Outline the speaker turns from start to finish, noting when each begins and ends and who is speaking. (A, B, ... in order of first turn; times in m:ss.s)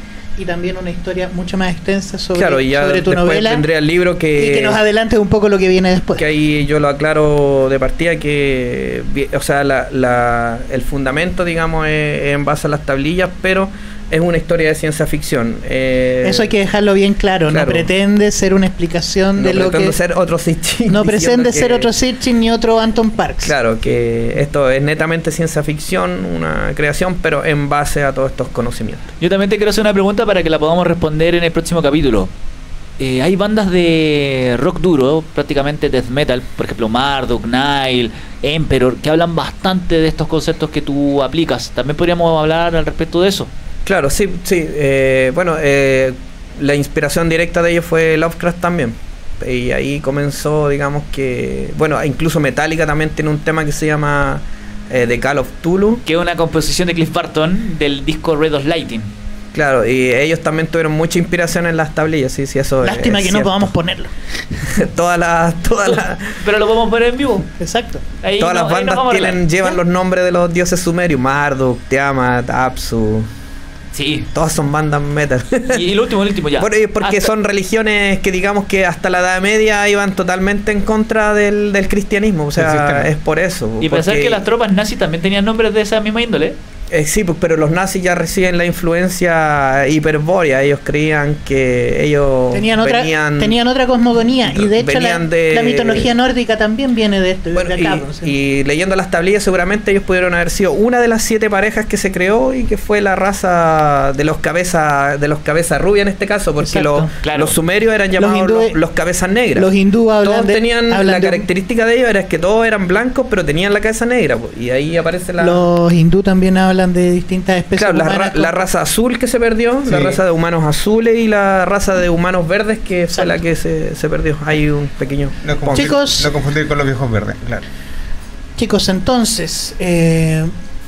0:00.4-0:03.6 A
0:02.4-0:04.8 B
0:04.4-0:06.2 A
0:06.2-0:16.5 B
0:16.2-0:20.0 A
0:17.5-0:17.9 B
0:19.4-0:21.9 B
0:20.9-0:23.5 A
0:23.4-0:29.1 B
0:29.2-0:32.3 C
0:33.0-0:43.5 C
0:43.8-0:56.0 B
0:56.1-0:59.1 C
0:59.5-1:03.7 B
1:02.8-1:04.1 A
1:04.7-1:06.4 B
1:05.9-1:07.5 C
1:07.6-1:08.0 A
1:08.2-1:09.8 C
1:08.4-1:13.3 B
1:13.9-1:14.3 C
1:14.3-1:15.9 B
1:15.7-1:17.3 C
1:16.6-1:24.4 B
1:22.5-1:23.1 D
1:23.8-1:26.6 C
1:26.9-1:33.6 B
1:32.5-1:38.3 A
1:34.4-1:36.1 B
1:37.5-1:49.7 B
1:46.6-1:47.1 A
1:47.2-1:47.6 C
1:48.2-1:48.8 A
1:49.6-1:51.5 A
1:50.2-1:55.6 B
1:55.4-1:58.6 A
1:57.8-2:06.0 B
1:59.9-2:00.2 D
2:03.1-2:03.4 A
2:05.4-2:07.6 D
2:05.7-2:06.3 A
2:08.6-2:10.5 A